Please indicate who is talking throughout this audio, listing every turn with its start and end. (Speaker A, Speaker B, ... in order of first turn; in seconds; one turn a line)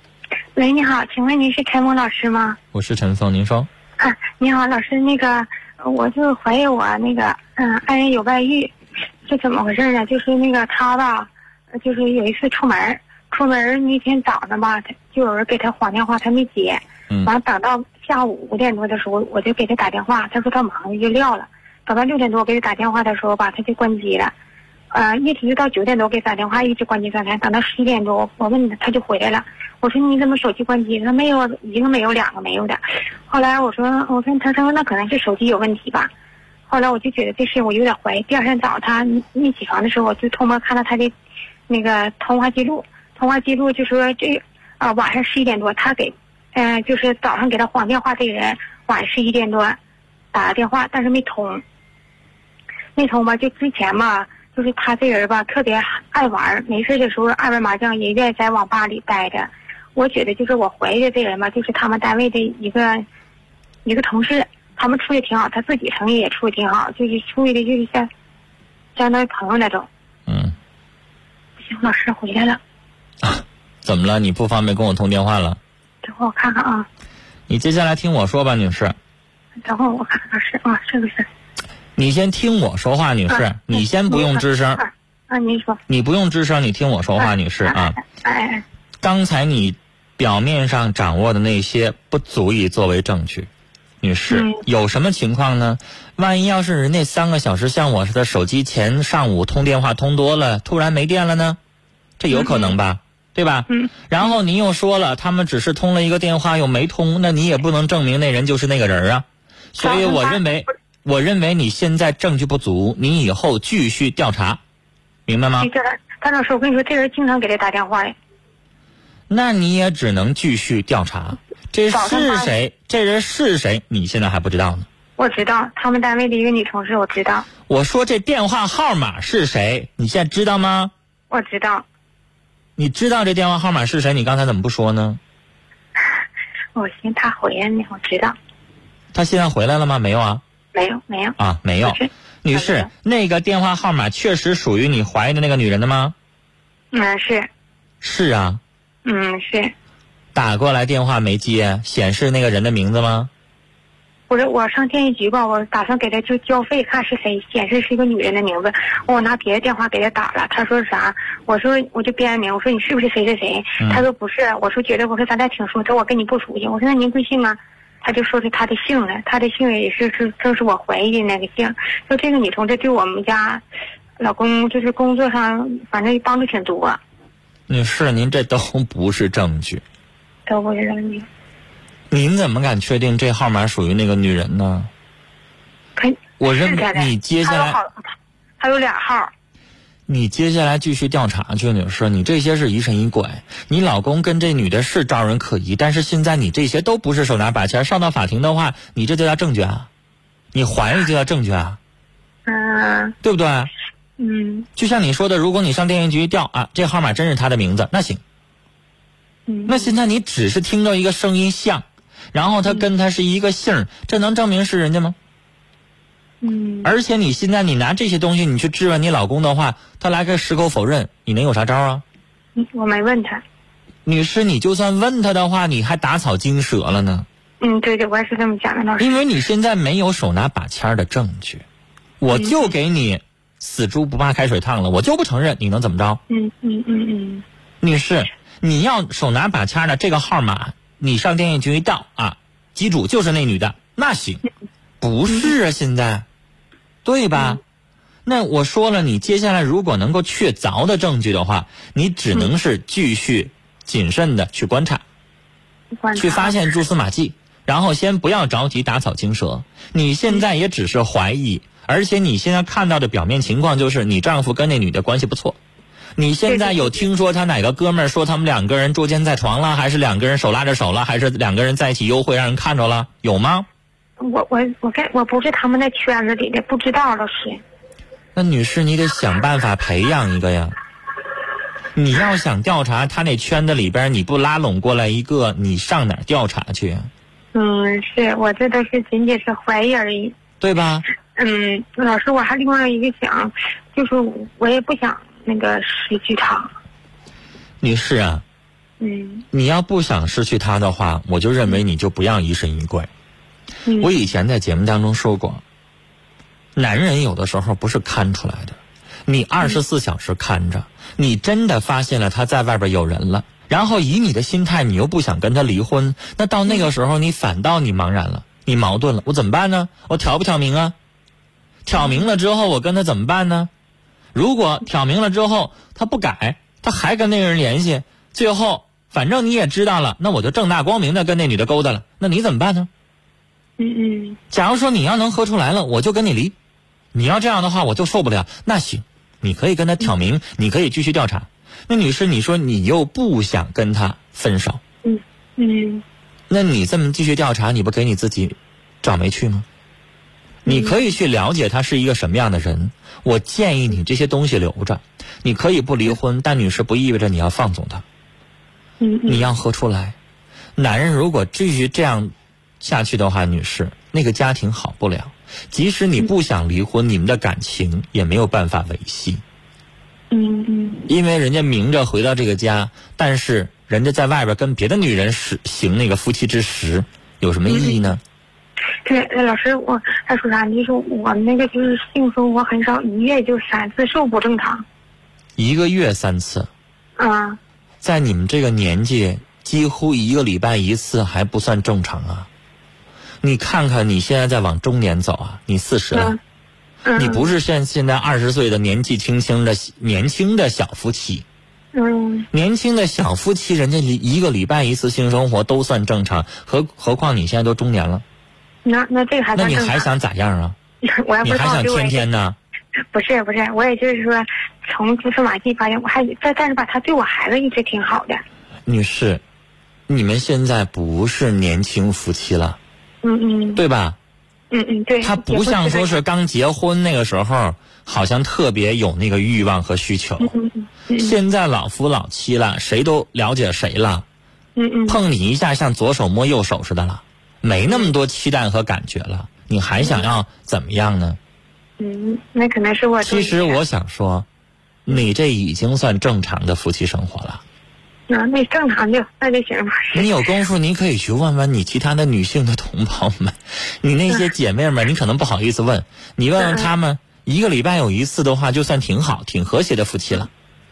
Speaker A: 0.6-2.6
Speaker B: 2.7-3.7
Speaker A: 4.0-8.7
Speaker A: 9.2-24.3
Speaker A: 24.9-36.1
Speaker A: 36.7-41.1
Speaker A: 41.7-49.8
Speaker A: 50.3-51.6
Speaker A: 52.9-63.0
Speaker A: 63.8-68.1
Speaker A: 69.0-69.9
Speaker B: 70.3-70.5
Speaker A: 71.7-72.6
Speaker B: 73.2-75.6
Speaker A: 76.0-76.9
Speaker B: 77.5-79.0
Speaker A: 79.6-81.3
Speaker B: 82.0-84.8
Speaker A: 83.3-85.8
Speaker B: 85.9-88.0
Speaker A: 87.2-88.6
Speaker B: 89.0-93.5
Speaker B: 94.0-101.6
Speaker A: 94.3-94.6
Speaker B: 102.2-114.6
Speaker A: 102.3-102.7
Speaker A: 109.8-110.4
Speaker B: 115.3-115.7
Speaker A: 115.6-118.2
Speaker B: 119.3-124.9
Speaker A: 121.9-122.5
Speaker A: 125.2-127.5
Speaker B: 127.7-130.9
Speaker A: 131.3-131.8
Speaker B: 132.8-135.2
Speaker A: 136.7-138.3
Speaker B: 139.1-140.4
Speaker A: 140.7-142.9
Speaker B: 141.4-146.1
Speaker A: 146.9-147.5
Speaker B: 148.0-148.6
Speaker A: 149.0-149.7
Speaker B: 150.3-153.3
Speaker A: 154.3-173.6
Speaker B: 163.8-164.0
Speaker A: 174.2-177.0
Speaker B: 177.7-179.8
Speaker A: 180.5-181.2
Speaker B: 182.1-184.9
Speaker A: 185.9-189.3
Speaker B: 186.4-187.8
Speaker B: 190.1-199.9
Speaker B: 200.5-201.8
Speaker A: 202.5-203.2
Speaker B: 203.2-203.7
Speaker A: 204.2-204.7
Speaker B: 204.8-208.2
Speaker A: 209.5-209.9
Speaker B: 209.7-215.2
Speaker A: 216.4-216.9
Speaker B: 216.8-222.0
Speaker A: 222.6-223.4
Speaker B: 224.1-227.2
Speaker A: 227.6-229.2
Speaker B: 229.0-231.6
Speaker B: 232.2-236.2
Speaker A: 232.3-232.7
Speaker A: 236.3-237.4
Speaker B: 237.8-244.4
Speaker B: 245.0-246.2
Speaker B: 247.0-247.6
Speaker B: 248.2-255.0
Speaker A: 256.0-256.5
Speaker B: 256.1-265.6
Speaker B: 266.2-273.7
Speaker A: 266.5-267.0
Speaker A: 274.2-277.6
Speaker B: 278.3-280.7
Speaker B: 281.9-287.1
Speaker A: 287.5-290.3
Speaker B: 290.6-291.0
Speaker A: 291.4-296.7
Speaker B: 297.8-298.4
Speaker A: 299.0-299.4
Speaker B: 299.5-303.1
Speaker A: 303.9-304.1
Speaker B: 304.0-305.6
Speaker B: 306.8-320.9
Speaker B: 321.9-323.7
Speaker A: 322.0-322.2
Speaker B: 324.3-332.9
Speaker A: 333.8-334.4
Speaker B: 334.5-336.5
Speaker B: 337.1-344.8
Speaker A: 345.0-346.0
Speaker B: 346.5-349.6
Speaker A: 350.6-351.0
Speaker B: 350.6-358.0
Speaker A: 359.0-359.4
Speaker B: 359.3-360.1
Speaker B: 360.8-369.4
Speaker A: 370.3-371.0
Speaker B: 371.1-378.2
Speaker A: 377.7-378.0
Speaker A: 379.0-384.8
Speaker B: 385.6-386.7
Speaker A: 387.2-387.6
Speaker B: 388.0-392.5
Speaker B: 393.4-396.4
Speaker A: 396.1-396.4
Speaker A: 397.0-397.5
Speaker B: 397.1-401.4
Speaker A: 401.9-402.5
Speaker B: 402.5-408.2
Speaker A: 408.8-410.1
Speaker B: 409.5-410.7
Speaker A: 411.0-412.2
Speaker B: 411.4-412.6
Speaker A: 413.1-418.4
Speaker B: 418.9-419.4
Speaker B: 420.1-422.8
Speaker A: 423.2-423.8
Speaker B: 423.8-424.2
Speaker A: 424.7-426.2
Speaker B: 425.2-430.5
Speaker A: 430.4-431.3
Speaker B: 431.2-434.2
Speaker A: 434.8-435.2
Speaker B: 435.1-441.4
Speaker A: 437.8-438.1
Speaker A: 440.0-440.3
Speaker A: 442.0-443.8
Speaker B: 443.2-444.5
Speaker B: 445.0-447.6
Speaker A: 448.3-450.3
Speaker B: 450.1-460.5
Speaker A: 456.6-456.9